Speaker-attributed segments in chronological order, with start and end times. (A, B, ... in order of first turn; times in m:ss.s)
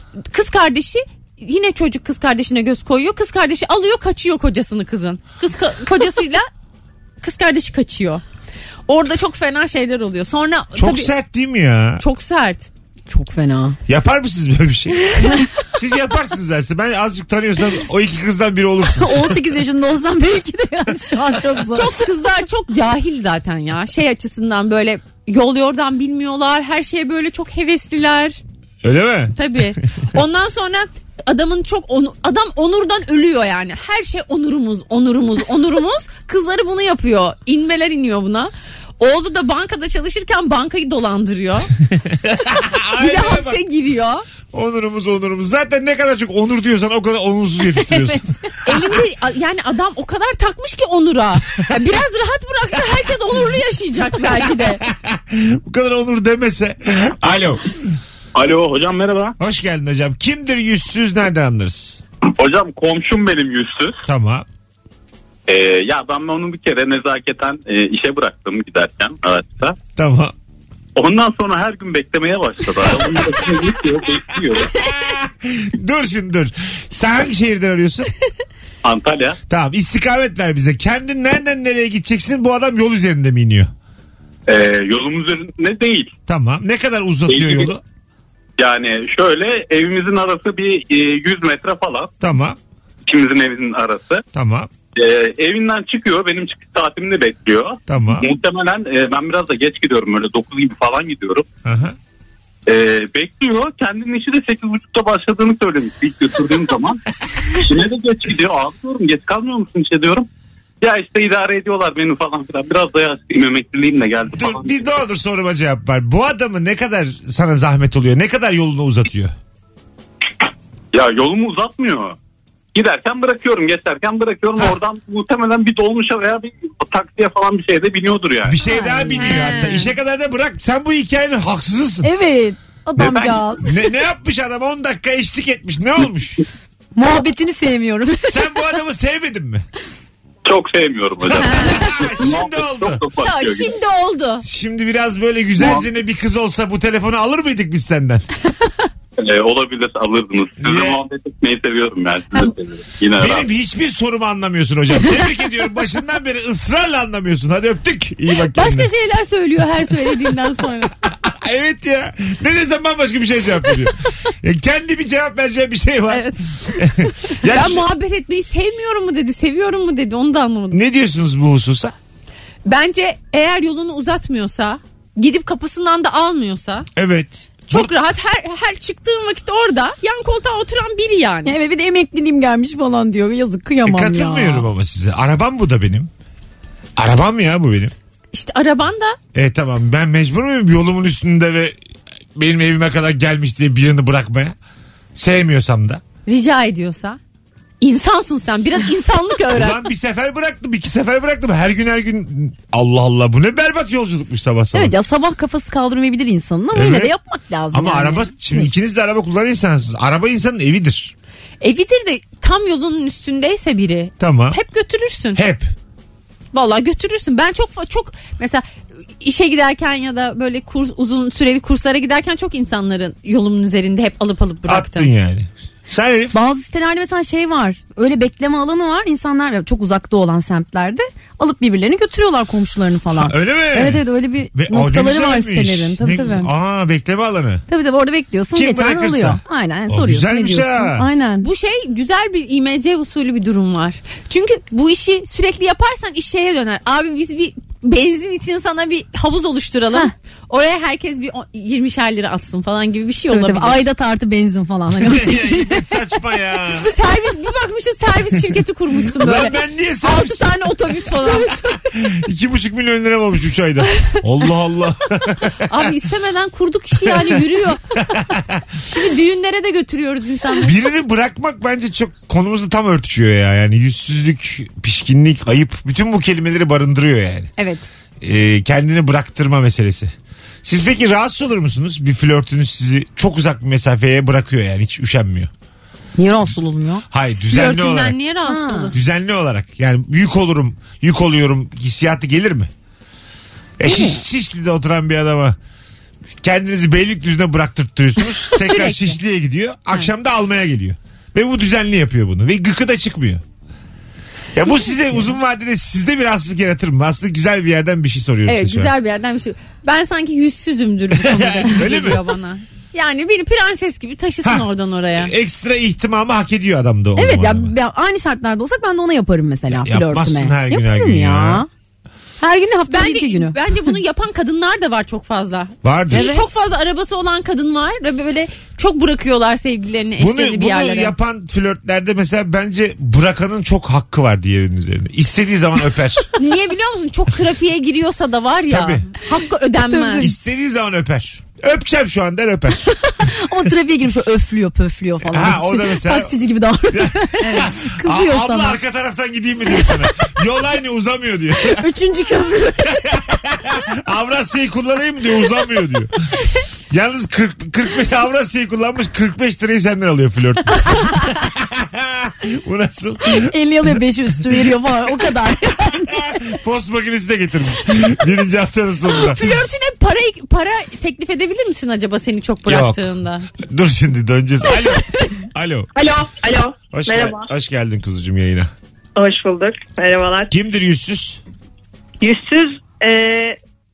0:00.3-0:06.5 A
0:07.2-0:08.2 A
0:08.9-0:11.1 A
0:10.8-0:12.0 B
0:12.0-0:12.7 A
0:13.1-0:13.8 C
0:13.9-0:19.4 B
0:19.0-0:21.9 C
0:21.7-0:28.4 A
0:28.8-0:29.4 B
0:29.4-0:41.7 A
0:41.9-0:43.6 B
0:43.0-0:44.2 A
0:44.5-0:48.3 B
0:48.5-0:54.8 A
0:54.6-0:57.6 B
0:58.4-0:59.4 D
0:59.4-1:02.0 B
1:02.4-1:04.0 D
1:04.1-1:04.5 B
1:05.5-1:09.8 D
1:10.0-1:10.3 B
1:11.0-1:14.7 D
1:14.6-1:18.1 B
1:18.8-1:19.4 D
1:19.5-1:23.7 B
1:24.5-1:26.1 D
1:26.3-1:27.8 B
1:27.3-1:27.7 D
1:28.6-1:32.1 D
1:32.2-1:32.6 B
1:33.1-1:34.2 D
1:34.3-1:34.7 B
1:35.0-1:41.5 D
1:37.9-1:38.3 B
1:41.6-1:42.0 B
1:42.7-1:50.3 D
1:50.8-1:54.8 D
1:54.3-1:59.3 B
2:00.9-2:02.2 D
2:02.8-2:08.6 D
2:08.5-2:12.1 B
2:08.7-2:09.6 C
2:09.1-2:09.9 A
2:12.0-2:13.8 C
2:13.0-2:13.4 D
2:13.6-2:16.4 B
2:17.0-2:18.4 C
2:18.3-2:19.6 B
2:20.5-2:23.7 D
2:21.4-2:23.0 B
2:23.2-2:24.4 A
2:24.4-2:28.3 B
2:25.6-2:25.8 D
2:29.2-2:33.5 D
2:30.6-2:31.0 B
2:33.2-2:38.9 B
2:38.5-2:40.9 A
2:41.2-2:47.9 B
2:46.1-2:50.8 A
2:50.7-2:52.0 B
2:52.7-2:56.9 A
2:57.0-2:57.9 B
2:57.7-3:01.6 A
3:01.4-3:04.6 C
3:03.8-3:06.1 B
3:07.0-3:07.9 B
3:08.3-3:09.2 A
3:09.3-3:11.8 B
3:12.4-3:14.6 B
3:15.2-3:16.0 B
3:16.3-3:17.2 A
3:17.8-3:19.9 A
3:19.5-3:24.9 B
3:24.7-3:28.7 C
3:26.7-3:27.1 B
3:27.7-3:31.1 B
3:31.6-3:35.4 A
3:34.2-3:34.6 B
3:35.3-3:35.7 B
3:36.5-3:38.7 A
3:39.2-3:45.1 A
3:44.7-3:46.4 B
3:46.3-3:56.5 C
3:53.2-3:57.6 B
3:57.7-4:01.5 C
3:58.5-4:01.1 B
4:01.4-4:13.8 A
4:13.3-4:15.9 C
4:15.0-4:16.9 B
4:16.7-4:21.7 A
4:19.2-4:20.7 B
4:21.9-4:25.8 B
4:25.7-4:27.8 A
4:27.0-4:27.4 B
4:28.0-4:28.6 B
4:28.9-4:30.7 A
4:30.6-4:37.5 B
4:37.6-4:37.9 A
4:38.2-4:40.1 B
4:40.6-4:45.5 B
4:46.2-4:47.0 C
4:47.1-4:48.2 B
4:47.4-4:49.0 A
4:48.5-4:48.9 C
4:48.9-4:52.7 B
4:53.8-4:55.6 B
4:53.9-4:54.2 C
4:56.4-5:03.4 B
4:58.6-4:59.2 A
5:04.6-5:08.9 B
5:08.5-5:15.3 A
5:11.1-5:12.2 B
5:14.4-5:17.7 B
5:17.2-5:21.7 C
5:19.7-5:21.6 B
5:22.4-5:23.6 C
5:22.9-5:31.2 A
5:25.8-5:26.3 B
5:26.1-5:26.5 C
5:30.2-5:36.3 B
5:36.4-5:40.3 A
5:38.7-5:39.1 B
5:39.8-5:40.3 C
5:40.2-5:42.9 B
5:43.0-5:48.8 C
5:45.3-5:46.3 B
5:46.9-5:51.9 B
5:47.5-5:47.7 A
5:49.7-5:50.0 C
5:51.7-5:53.2 C
5:53.0-5:56.2 B
5:56.9-6:03.5 B
6:03.4-6:06.5 C
6:06.1-6:09.6 B
6:09.1-6:13.5 A
6:12.7-6:15.9 B
6:16.0-6:17.5 E
6:16.9-6:18.7 B
6:19.2-6:20.5 E
6:20.5-6:21.4 B
6:22.2-6:23.6 E